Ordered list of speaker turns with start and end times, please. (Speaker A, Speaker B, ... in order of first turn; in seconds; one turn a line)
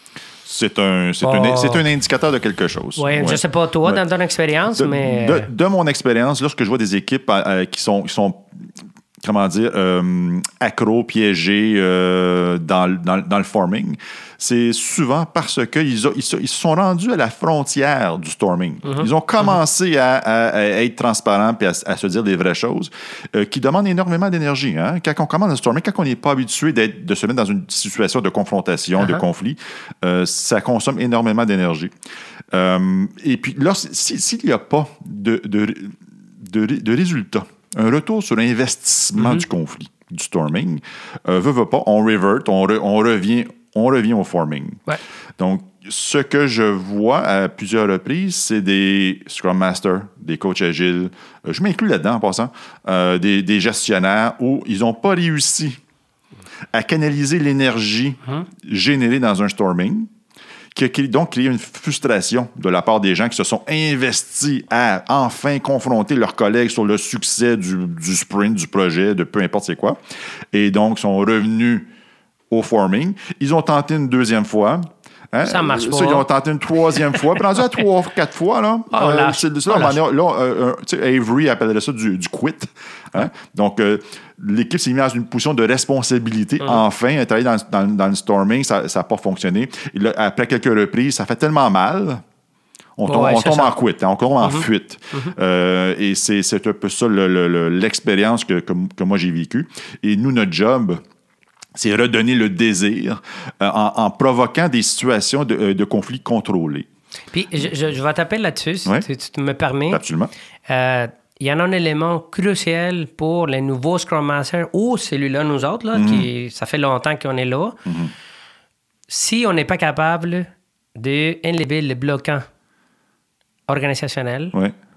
Speaker A: 0.4-4.0
Speaker B: 1.2-1.8
Speaker B: 3.0-5.5
Speaker A: 4.7-8.5
Speaker A: 9.2-31.9
Speaker B: 18.8-19.6
Speaker B: 29.0-29.2
Speaker A: 32.5-44.8
Speaker B: 39.1-39.4
Speaker A: 45.4-55.8
Speaker A: 56.7-60.1
Speaker A: 60.7-70.0
Speaker A: 70.5-71.9
Speaker A: 72.5-92.2
Speaker B: 75.4-76.3
Speaker B: 78.9-80.0
Speaker A: 93.0-101.0
Speaker B: 93.0-93.8
Speaker B: 94.4-95.3
Speaker A: 101.8-106.8
Speaker B: 107.3-110.0
Speaker A: 109.9-110.3
Speaker B: 110.7-117.8
Speaker A: 115.9-116.3
Speaker A: 117.8-118.1
Speaker B: 119.1-122.4
Speaker B: 123.7-124.6